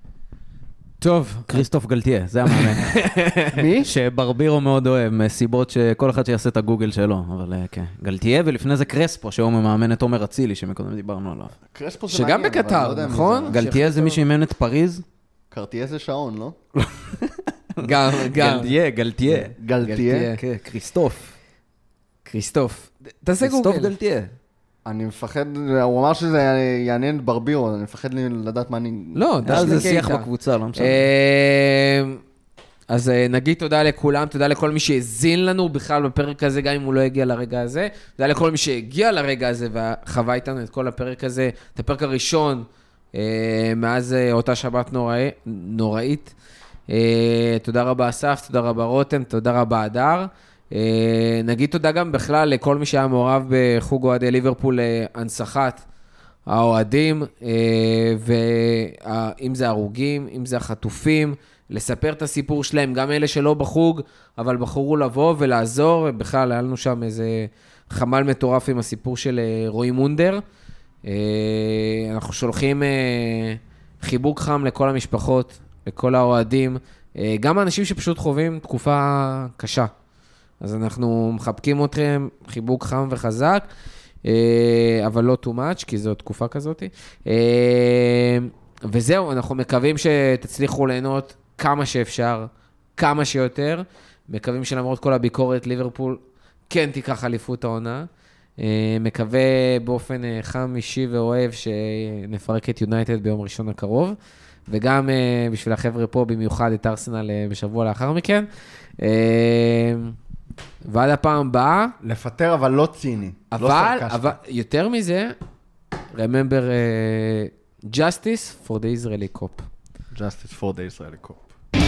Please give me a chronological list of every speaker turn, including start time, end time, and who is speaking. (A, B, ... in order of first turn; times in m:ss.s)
0:01.0-0:01.6 A
0:01.5-0:03.0 B
0:02.5-0:03.6 A
0:03.5-0:03.9 C
0:03.8-0:11.5 B
0:11.7-0:13.6 C
0:12.1-0:14.2 A
0:13.5-0:15.0 B
0:15.5-0:16.6 C
0:16.8-0:19.5 B
0:17.8-0:18.7 A
0:19.3-0:20.3 C
0:19.8-0:20.4 A
0:20.4-0:21.3 B
0:22.2-0:23.9 A
0:23.4-0:24.3 B
0:24.8-0:30.0 C
0:29.1-0:32.2 A
0:29.4-0:31.0 B
0:32.9-0:46.3 A
0:46.9-0:55.8 A
0:56.5-1:10.4 A
1:11.0-1:19.9 A
1:20.6-1:23.7 A
1:24.2-1:38.1 A
1:38.6-1:48.5 A
1:49.0-1:50.1 A
1:50.8-1:52.0 A
1:52.0-1:54.4 C
1:53.5-1:55.4 A
1:56.1-1:59.7 A
2:00.1-2:01.5 C